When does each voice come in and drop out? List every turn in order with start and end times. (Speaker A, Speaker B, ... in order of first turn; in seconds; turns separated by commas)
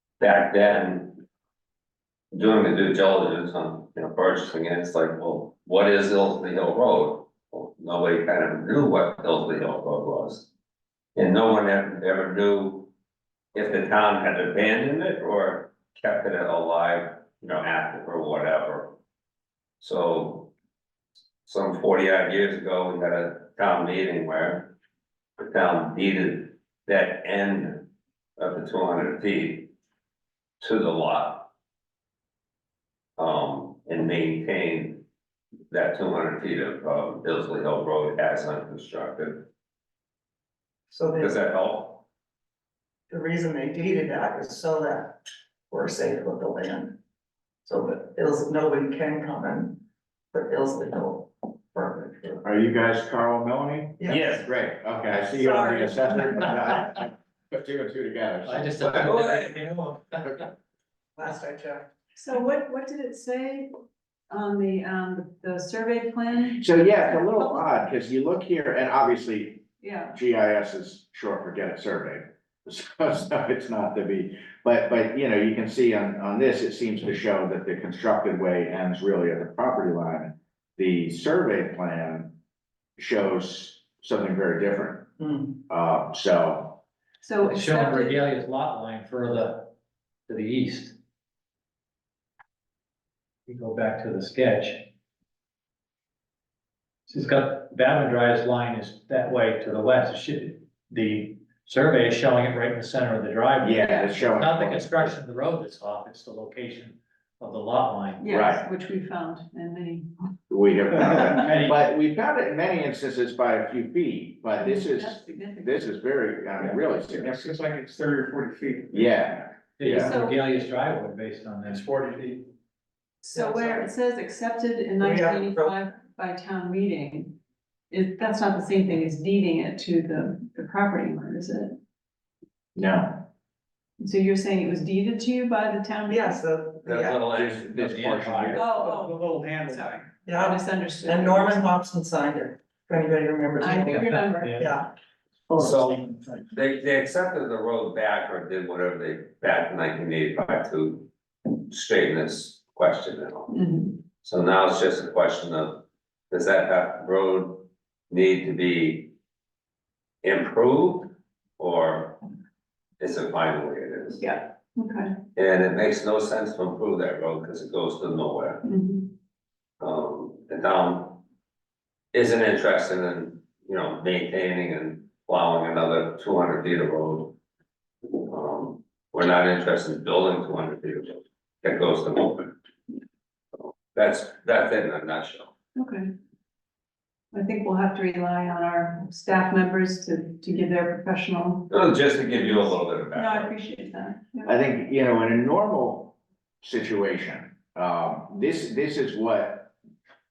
Speaker A: 0.2-1.2, Speaker A: 2.3-10.5, Speaker A: 11.2-12.9, Speaker A: 13.5-19.0, Speaker A: 19.8-20.5, Speaker A: 21.4-24.7, Speaker A: 25.4-27.9, Speaker A: 28.4-29.7, Speaker A: 30.6-31.5, Speaker A: 33.2-35.0, Speaker A: 35.7-39.5, Speaker B: 40.9-41.4, Speaker A: 41.2-42.0, Speaker B: 43.1-45.2, Speaker B: 45.7-47.0, Speaker B: 47.6-49.8, Speaker B: 50.3-52.4, Speaker C: 52.4-59.2, Speaker B: 54.0-54.4, Speaker A: 54.1-54.5, Speaker B: 55.2-56.5, Speaker D: 58.4-60.5, Speaker A: 58.8-59.6, Speaker B: 61.1-61.9, Speaker E: 62.1-63.7, Speaker E: 64.3-67.7, Speaker C: 66.6-82.3, Speaker E: 69.8-70.2, Speaker C: 83.0-85.1, Speaker B: 85.2-85.5, Speaker C: 85.7-86.8, Speaker E: 87.2-88.3, Speaker D: 87.4-89.7, Speaker D: 90.3-91.0, Speaker D: 93.5-94.9, Speaker D: 97.1-108.3, Speaker C: 103.6-105.1, Speaker E: 108.2-110.1, Speaker C: 108.2-108.6, Speaker C: 110.5-117.5, Speaker D: 111.0-111.8, Speaker E: 114.6-115.9, Speaker F: 117.1-119.1, Speaker C: 118.9-120.1, Speaker D: 119.8-121.8, Speaker E: 119.9-120.4, Speaker F: 121.6-122.5, Speaker E: 123.2-127.4, Speaker B: 123.3-123.8, Speaker B: 125.0-125.8, Speaker E: 127.9-131.8, Speaker C: 132.7-133.2, Speaker E: 134.0-136.4, Speaker B: 136.1-137.2, Speaker A: 136.8-137.8, Speaker C: 137.3-138.7, Speaker D: 137.7-139.9, Speaker E: 138.5-141.7, Speaker B: 140.2-144.9, Speaker E: 143.6-144.7, Speaker D: 143.8-144.7, Speaker D: 145.5-146.2, Speaker A: 145.6-151.1, Speaker A: 151.7-153.5, Speaker E: 153.5-154.0, Speaker A: 154.2-159.1, Speaker A: 160.2-162.2, Speaker A: 163.0-164.3, Speaker E: 164.2-165.1, Speaker A: 165.3-168.6, Speaker E: 168.6-169.1, Speaker A: 169.8-171.2, Speaker A: 172.1-177.3, Speaker A: 178.2-182.5, Speaker A: 183.9-185.5, Speaker E: 185.8-186.1, Speaker E: 187.3-191.7, Speaker A: 191.7-193.5, Speaker E: 192.2-194.5, Speaker C: 194.4-199.7